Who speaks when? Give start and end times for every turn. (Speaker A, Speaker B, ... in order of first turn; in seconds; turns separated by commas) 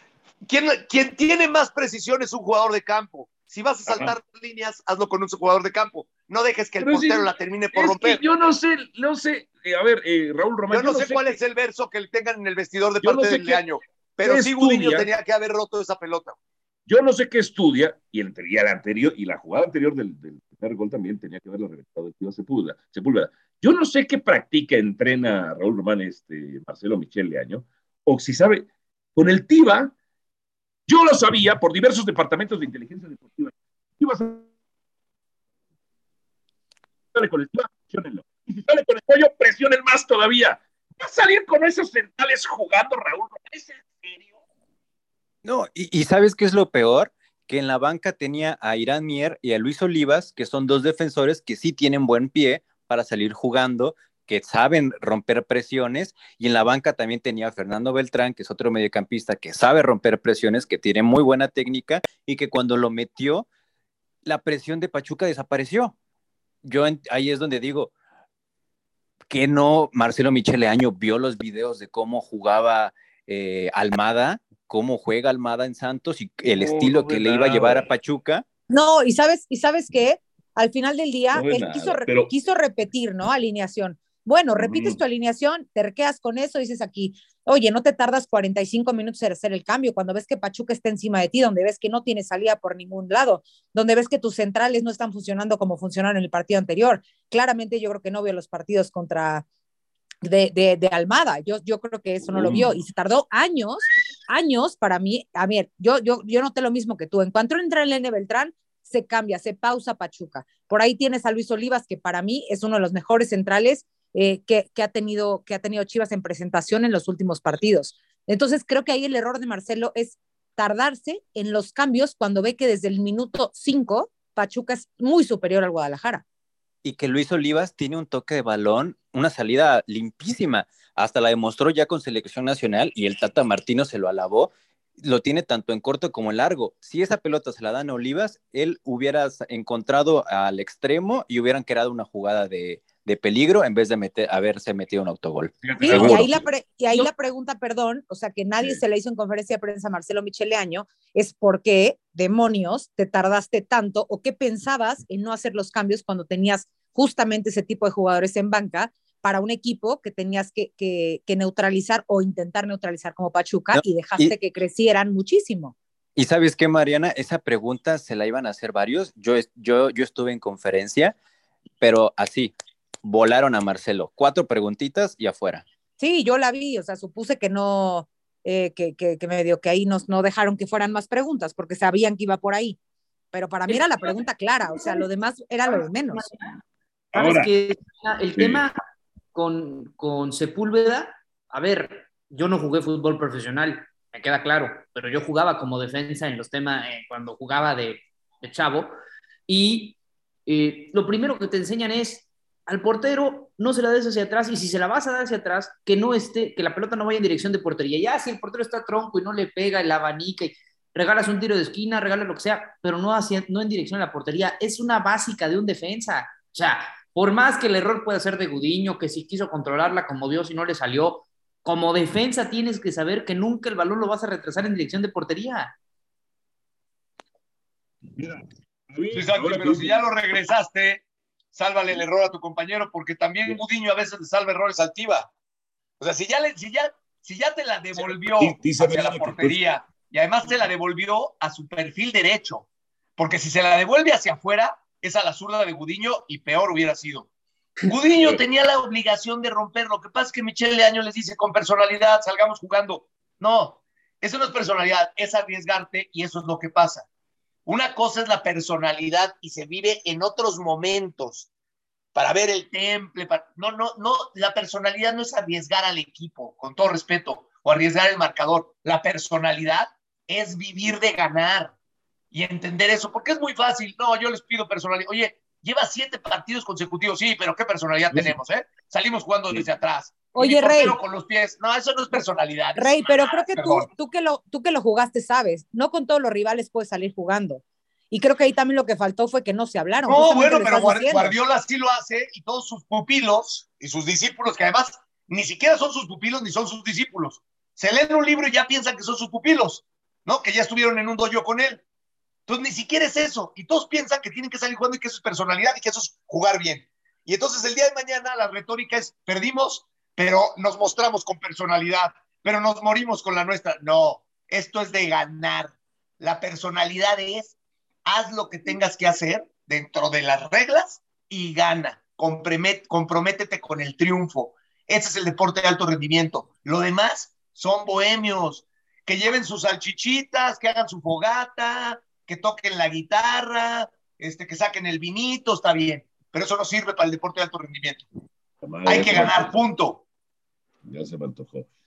Speaker A: 0.5-8.2, Speaker B: 3.9-4.1, Speaker B: 6.8-11.4, Speaker A: 10.7-16.4, Speaker B: 13.0-13.6, Speaker B: 14.2-15.1, Speaker B: 16.9-29.9, Speaker B: 30.9-34.5, Speaker B: 37.1-44.4, Speaker C: 45.4-63.5, Speaker C: 64.2-66.0, Speaker C: 66.6-67.9, Speaker C: 69.3-78.5, Speaker B: 76.5-77.9, Speaker D: 78.7-99.5, Speaker B: 81.3-82.3, Speaker B: 84.6-85.0, Speaker D: 100.2-126.2, Speaker B: 102.3-102.8, Speaker C: 126.8-146.3, Speaker B: 145.6-146.5, Speaker D: 145.8-165.8, Speaker C: 163.7-164.3, Speaker C: 166.2-171.2, Speaker C: 171.8-172.5, Speaker C: 173.0-175.7, Speaker D: 176.0-182.8, Speaker D: 183.3-186.3, Speaker E: 183.7-185.1, Speaker E: 186.1-186.5, Speaker B: 187.1-187.5, Speaker E: 187.1-188.8, Speaker B: 188.4-188.6, Speaker E: 189.3-198.9, Speaker E: 199.5-225.7, Speaker B: 228.2-230.1, Speaker A: 229.1-231.0, Speaker A: 231.5-235.3, Speaker A: 236.0-242.7, Speaker B: 237.9-239.6, Speaker A: 243.2-247.3, Speaker A: 247.8-257.1, Speaker B: 248.2-248.4, Speaker A: 257.7-261.5, Speaker A: 262.1-271.7, Speaker A: 272.3-283.9, Speaker D: 280.4-281.0, Speaker D: 282.8-291.4, Speaker A: 290.1-301.8, Speaker A: 302.5-317.5, Speaker A: 318.1-338.0, Speaker B: 338.6-339.6, Speaker A: 338.9-340.0, Speaker B: 340.9-341.7